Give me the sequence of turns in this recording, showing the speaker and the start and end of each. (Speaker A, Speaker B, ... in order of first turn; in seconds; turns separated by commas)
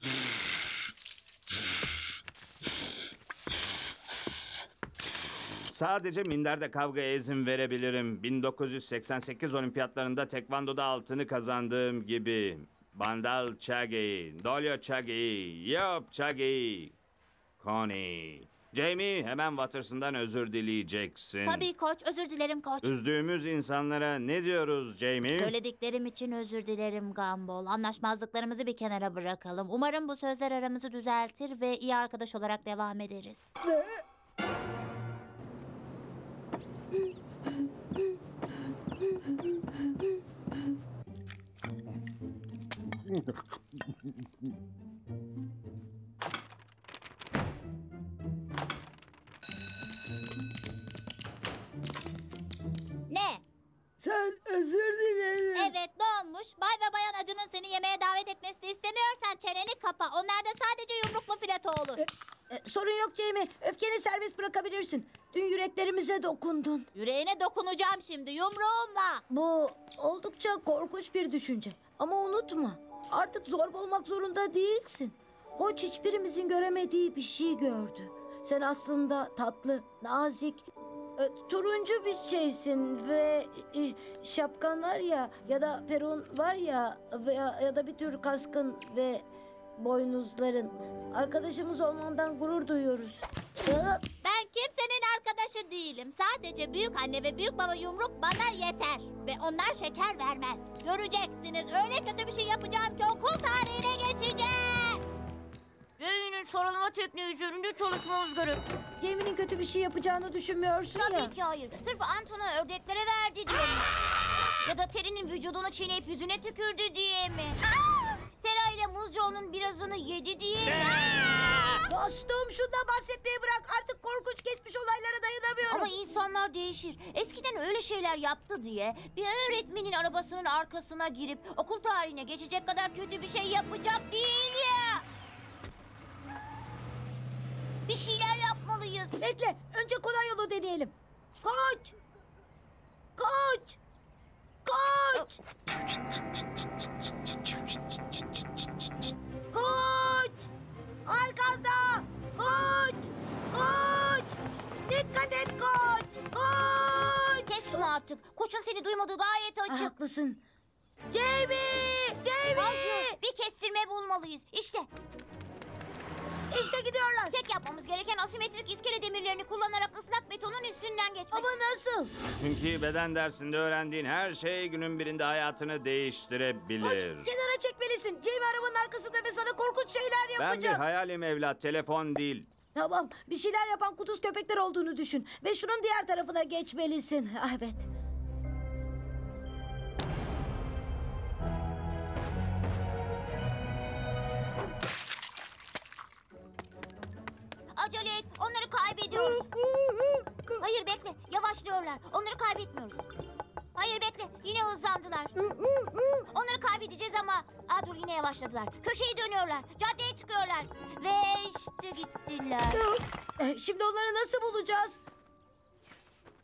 Speaker A: 5.7-16.9, Speaker A: 17.6-21.7, Speaker B: 21.4-22.9, Speaker A: 22.8-25.5, Speaker B: 25.4-33.5, Speaker B: 53.1-53.4, Speaker C: 54.0-55.7, Speaker B: 55.5-62.0, Speaker C: 62.0-66.9, Speaker B: 66.9-69.2, Speaker C: 69.3-80.6, Speaker C: 81.2-89.2, Speaker C: 89.8-93.2, Speaker B: 94.0-105.0, Speaker D: 106.0-108.6, Speaker C: 109.0-111.3, Speaker D: 110.9-113.8, Speaker D: 114.6-117.6, Speaker D: 118.3-121.0, Speaker A: 120.9-121.6, Speaker C: 121.9-125.9, Speaker D: 125.7-135.0, Speaker D: 137.9-139.2, Speaker C: 139.2-141.9, Speaker C: 143.2-143.8, Speaker C: 144.6-145.4, Speaker C: 149.5-150.5, Speaker C: 151.0-154.4, Speaker C: 154.9-157.9, Speaker D: 157.4-159.9, Speaker C: 159.7-160.4, Speaker C: 161.1-163.2, Speaker D: 162.6-164.9, Speaker C: 166.5-167.3, Speaker D: 167.3-171.5, Speaker C: 171.3-172.1, Speaker A: 172.6-177.3, Speaker C: 176.8-180.8, Speaker A: 180.4-182.5, Speaker C: 182.7-187.9, Speaker D: 197.7-199.4, Speaker C: 199.1-200.6, Speaker D: 200.6-203.0, Speaker D: 203.7-205.3, Speaker C: 205.4-206.3, Speaker D: 206.3-212.8, Speaker C: 212.7-215.0